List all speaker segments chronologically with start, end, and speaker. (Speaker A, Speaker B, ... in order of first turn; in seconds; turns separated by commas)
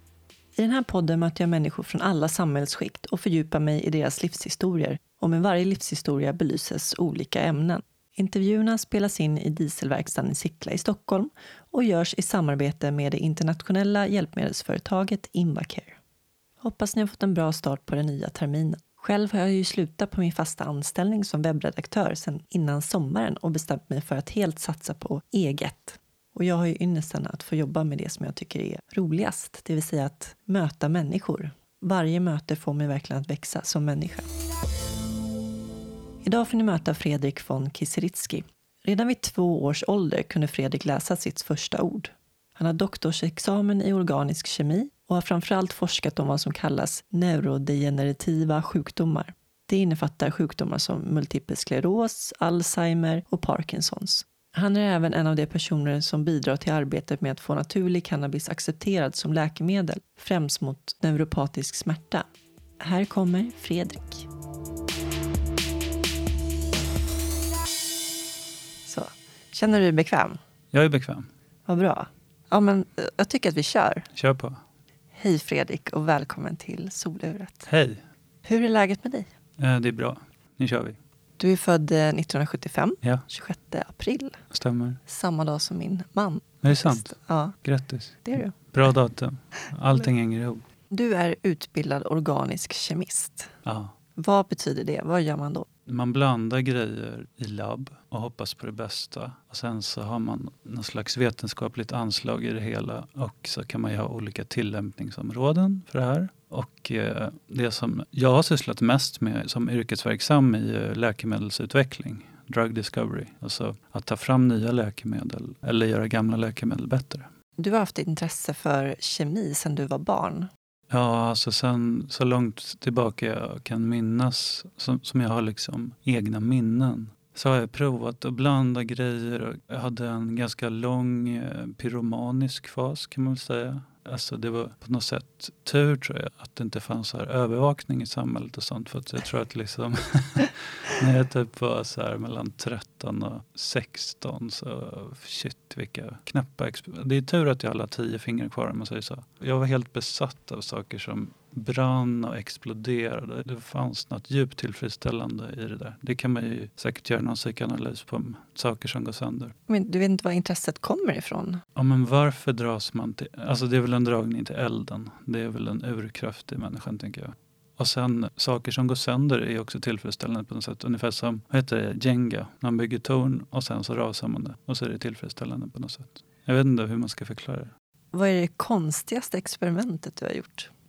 Speaker A: 0.6-16.0, Speaker A: 16.6-34.3, Speaker A: 36.2-62.2, Speaker A: 62.8-64.3, Speaker A: 68.9-70.4, Speaker B: 70.7-71.3, Speaker A: 71.7-74.1, Speaker B: 74.1-74.6, Speaker A: 75.1-77.7, Speaker B: 77.7-78.0, Speaker A: 78.5-79.3, Speaker B: 79.6-81.0, Speaker A: 81.4-84.4, Speaker B: 84.5-85.0, Speaker A: 85.1-87.6, Speaker B: 86.6-90.6, Speaker A: 88.2-88.5, Speaker A: 90.9-93.5, Speaker B: 93.7-94.0, Speaker A: 94.2-95.7, Speaker B: 95.9-117.3, Speaker A: 117.6-120.5, Speaker B: 120.9-159.5, Speaker A: 159.7-161.6, Speaker B: 161.8-177.7, Speaker A: 178.1-180.7